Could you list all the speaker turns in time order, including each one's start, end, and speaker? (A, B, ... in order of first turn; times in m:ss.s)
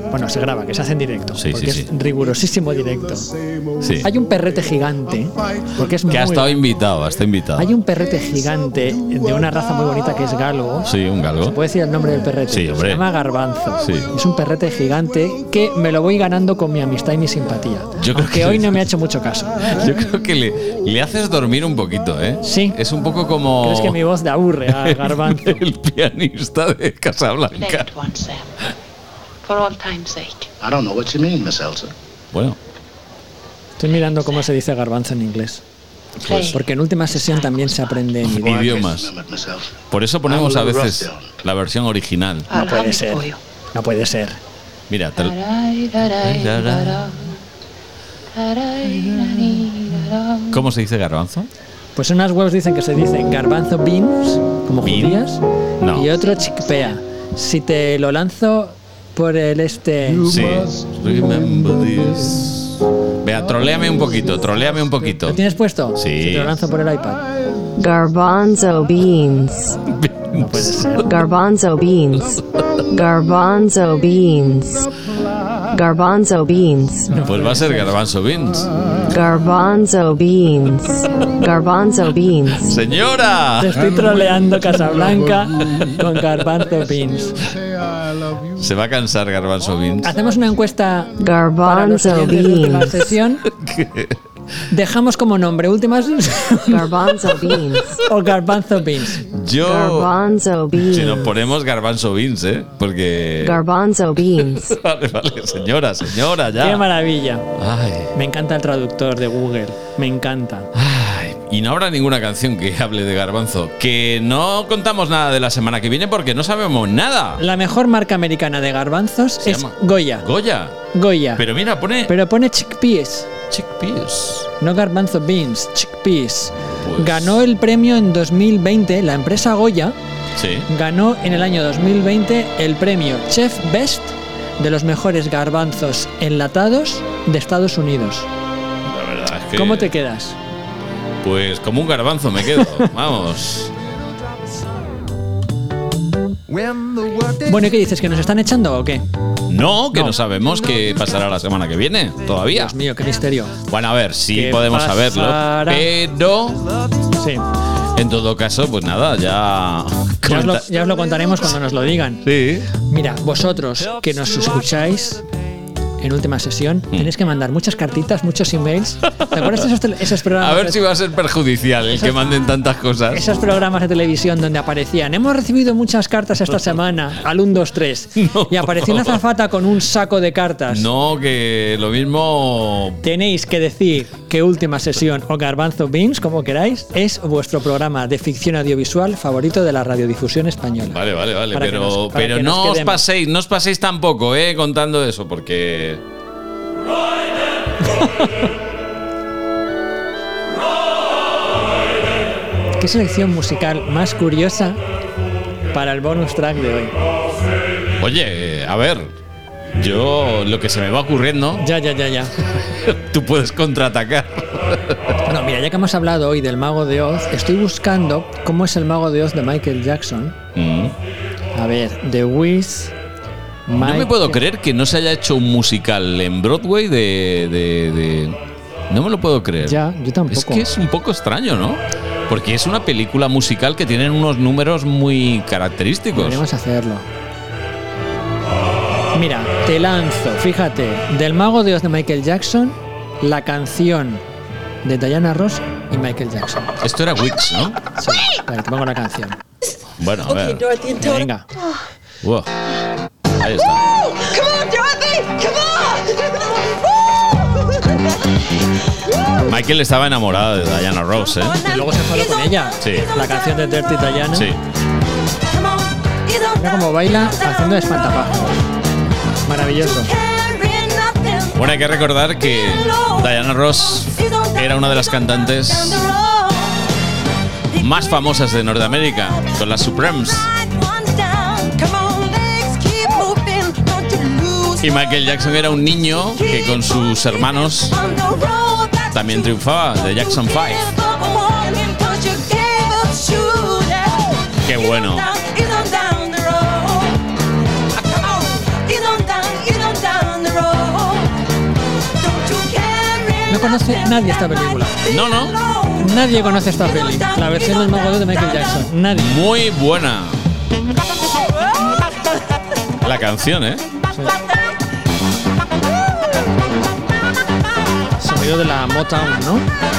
0:00.1-0:03.3 A
0:01.4-0:01.9 B
0:03.8-0:04.1 B
0:04.0-0:06.6 A
0:06.1-0:07.7 B
0:07.6-0:19.8 A
0:10.8-0:11.6 B
0:12.5-0:13.0 B
0:13.8-0:14.1 B
0:18.0-0:18.8 B
0:19.8-0:24.0 B
0:22.4-0:22.8 A
0:23.6-0:25.6 A
0:24.7-0:27.9 B
0:27.6-0:28.5 C
0:29.5-0:30.5 C
0:30.6-0:31.9 D
0:33.8-0:35.6 A
0:36.2-0:36.6 C
0:36.5-0:38.9 A
0:37.2-0:37.5 C
0:38.2-0:39.1 B
0:39.2-0:39.7 D
0:39.9-0:42.5 B
0:40.4-0:40.7 D
0:42.5-0:43.4 C
0:42.5-0:44.4 A
0:44.9-0:45.4 B
0:45.2-0:47.4 C
0:46.2-0:47.0 B
0:48.3-0:50.7 C
0:50.5-0:51.5 B
0:52.0-0:55.4 A
0:54.8-0:55.2 B
0:55.8-0:56.1 B
0:55.9-1:00.5 A
1:00.3-1:02.7 B
1:03.2-1:05.4 B
1:05.2-1:07.2 A
1:06.0-1:06.6 B
1:07.8-1:09.8 E
1:09.9-1:11.0 B
1:10.4-1:11.1 A
1:11.1-1:12.4 E
1:12.9-1:14.9 E
1:15.7-1:17.1 E
1:17.1-1:17.9 A
1:17.2-1:18.7 B
1:19.1-1:22.7 E
1:22.6-1:23.8 B
1:23.6-1:27.4 A
1:28.6-1:30.1 B
1:30.0-1:33.4 A
1:31.2-1:33.0 E
1:33.5-1:34.2 B
1:34.7-1:36.9 A
1:36.7-1:38.0 E
1:38.0-1:39.2 A
1:39.3-1:40.1 B
1:39.6-1:41.4 E
1:40.7-1:43.6 B
1:43.4-1:44.7 E
1:44.7-1:46.9 B
1:46.6-1:47.5 A
1:47.6-1:48.1 B
1:48.1-1:50.7 A
1:50.7-1:57.4 B
1:57.4-2:00.3 A
1:59.4-2:00.8 B
2:00.9-2:01.4 A
2:01.4-2:02.1 B
2:02.1-2:03.3 A
2:03.5-2:04.5 B
2:04.6-2:10.0 A
2:06.8-2:07.3 B
2:10.4-2:10.7 B
2:10.7-2:18.3 A
2:18.8-2:19.9 B
2:19.6-2:20.4 A
2:21.2-2:23.7 B
2:27.4-2:29.0 A
2:29.5-2:32.7 B
2:29.9-2:30.2 A
2:32.5-2:33.5 A
2:33.7-2:36.6 B
2:34.3-2:35.9 A
2:37.2-2:37.4 A
2:38.0-2:40.6 B
2:40.3-2:42.3 A
2:42.2-2:42.7 B
2:42.8-2:45.2 A
2:46.0-2:50.8 A
2:50.4-2:53.3 B
2:51.9-2:52.2 A
2:53.1-3:00.9 A
2:58.2-2:59.2 B
3:00.7-3:03.0 B
3:03.0-3:11.0 A
3:10.9-3:16.0 B
3:11.5-3:13.0 A
3:17.8-3:18.3 A
3:22.8-3:24.8 A
3:25.7-3:26.9 A
3:28.0-3:29.1 B
3:29.8-3:31.7 B
3:31.6-3:32.3 A
3:32.8-3:35.1 B
3:35.2-3:40.4 A
3:40.6-3:41.0 B
3:41.6-3:42.9 A
3:43.7-3:44.4 A
3:43.7-3:48.4 B
3:48.9-3:49.8 B
3:49.6-3:50.7 A
3:50.3-3:56.4 B
3:56.1-3:57.0 A
3:59.1-4:04.2 A
4:04.8-4:06.7 A
4:06.8-4:07.8 B
4:08.0-4:09.4 A
4:10.0-4:10.6 B
4:10.3-4:11.3 F
4:11.0-4:11.5 A
4:12.2-4:12.5 B
4:13.4-4:13.8 B
4:14.1-4:16.7 F
4:19.4-4:21.6 B
4:21.5-4:22.5 F
4:21.6-4:24.5 A
4:22.8-4:23.1 B
4:24.3-4:24.6 B
4:25.5-4:26.7 F
4:26.6-4:28.6 A
4:27.5-4:27.9 F
4:29.5-4:30.1 A
4:30.0-4:31.6 F
4:31.5-4:36.0 B
4:32.7-4:33.3 F
4:34.1-4:36.8 F
4:37.8-4:40.5 B
4:40.2-4:44.9 F
4:44.8-4:48.0 B
4:46.4-4:57.2 F
4:49.1-4:50.9 B
4:54.7-4:55.3 B
4:58.0-5:01.3 F
5:02.2-5:08.9 F
5:03.5-5:05.0 A
5:05.1-5:05.5 B
5:06.0-5:09.3 A
5:09.1-5:10.4 B
5:13.0-5:13.8 B
5:18.2-5:19.7 A